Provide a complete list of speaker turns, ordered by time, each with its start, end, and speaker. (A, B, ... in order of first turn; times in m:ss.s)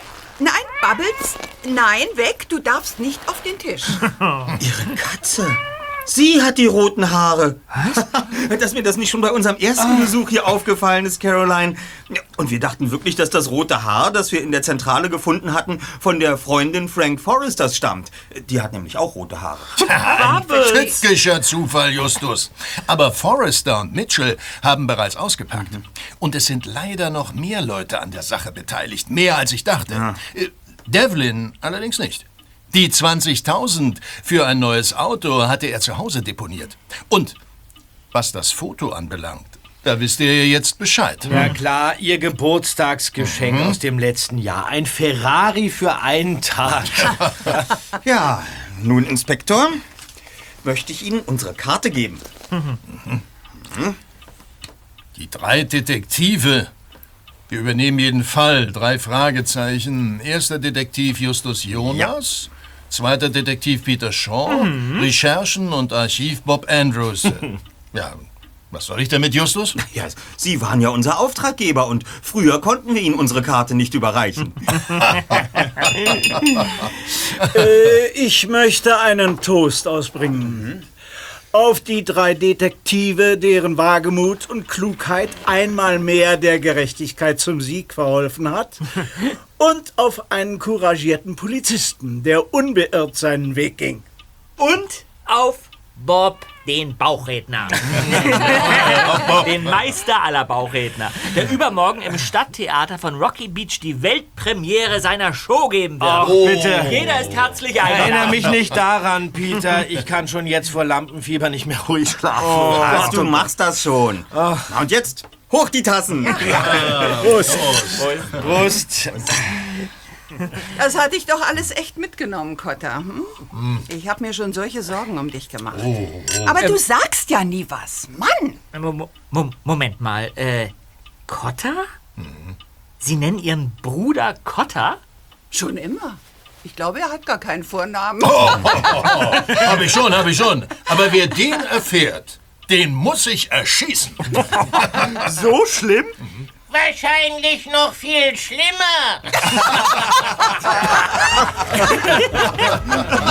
0:00.4-0:04.0 A
0:04.6-0:19.9 B
0:19.8-0:21.0 C
0:19.8-0:37.4 D
0:29.9-0:30.2 B
0:38.1-0:41.6 D
0:41.3-0:47.6 E
0:43.2-0:43.8 D
0:47.0-0:47.5 D
0:48.0-0:49.8 B
0:50.6-0:52.2 B
0:53.6-0:54.0 B
0:55.1-0:56.7 D
0:57.5-1:09.8 D
1:04.5-1:05.0 C
1:09.8-1:15.1 B
1:17.4-1:20.7 F
1:20.6-1:20.8 B
1:21.5-1:34.0 F
1:34.6-1:48.6 C
1:38.1-1:39.5 D
1:46.0-1:47.2 E
1:46.2-1:47.6 D
1:47.8-1:53.5 E
1:52.4-1:57.1 B
1:54.3-1:54.7 E
1:56.5-1:57.0 E
1:56.6-1:58.5 D
1:57.1-1:57.9 F
1:57.8-1:59.4 E
2:00.7-2:08.6 A
2:03.5-2:03.8 D
2:05.7-2:06.6 D
2:08.7-2:10.7 C
2:11.3-2:11.9 C
2:12.2-2:12.6 D
2:13.0-2:15.0 C
2:15.5-2:19.0 A
2:18.2-2:24.5 D
2:25.0-2:25.4 D
2:25.1-2:26.2 F
2:26.7-2:30.0 G
2:32.0-2:32.7 C